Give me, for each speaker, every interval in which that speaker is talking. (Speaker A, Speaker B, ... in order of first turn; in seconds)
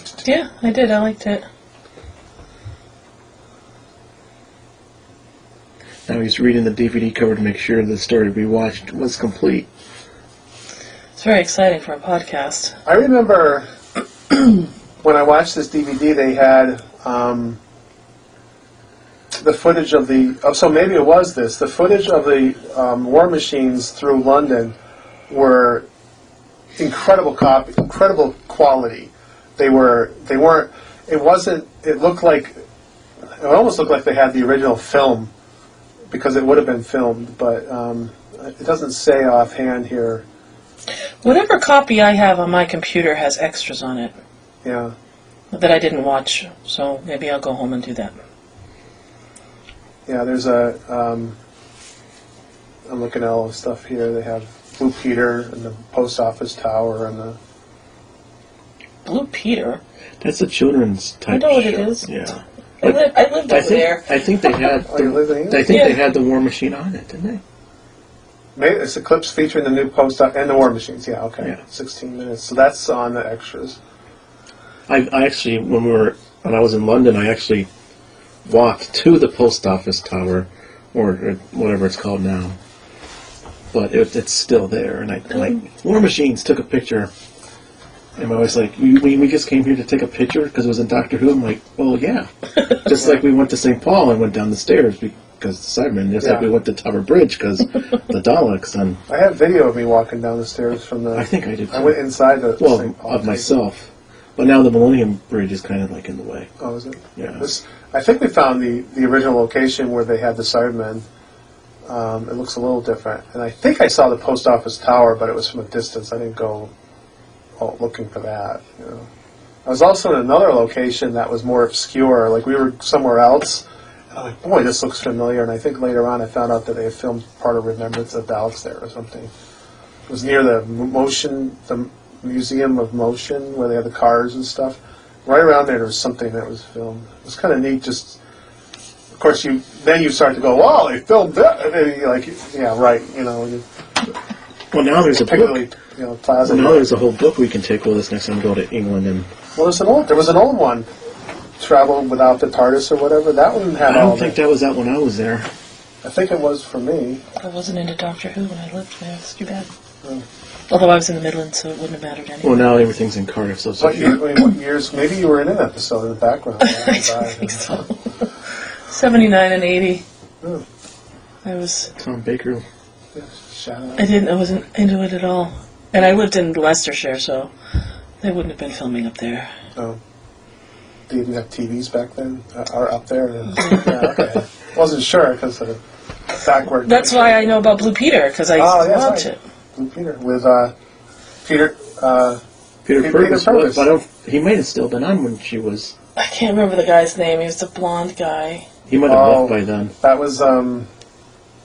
Speaker A: 0.2-1.4, 11.2-12.8, 41.2-44.1, 45.5-48.1, 59.0-59.8, 61.3-62.1, 62.8-64.1, 65.7-66.0, 157.4-159.7, 160.7-162.7, 166.6-168.3, 168.9-170.0, 171.4-171.9, 174.0-177.5, 178.2-179.5, 186.8-189.4, 196.2-198.7
Speaker B: 6.1-9.7, 60.2-67.4, 74.9-77.7, 78.5-82.6, 83.7-87.1, 88.2-99.0, 101.2-102.0, 102.6-106.5, 107.2-107.5, 144.7-145.6, 146.4-149.3, 153.8-155.5, 162.4-164.4, 172.0-172.7, 192.8-195.9, 198.9-199.9
Speaker C: 12.8-13.7, 15.0-17.6, 19.4-24.8, 25.3-25.9, 26.8-32.6, 33.4-35.3, 36.1-40.2, 44.6-44.9, 50.1-51.4, 52.9-57.4, 64.9-65.8, 68.6-73.8, 92.9-93.2, 96.2-96.5, 99.1-103.5, 106.6-111.0, 111.9-116.7, 117.6-119.1, 119.7-129.3, 130.1-138.2, 139.2-143.6, 145.2-146.9, 149.6-150.9, 151.6-154.4, 156.0-157.2, 163.8-167.7, 173.1-174.2, 181.1-185.8, 186.4-187.6, 188.6-190.7, 191.4-192.4, 193.0-193.9, 199.1-200.9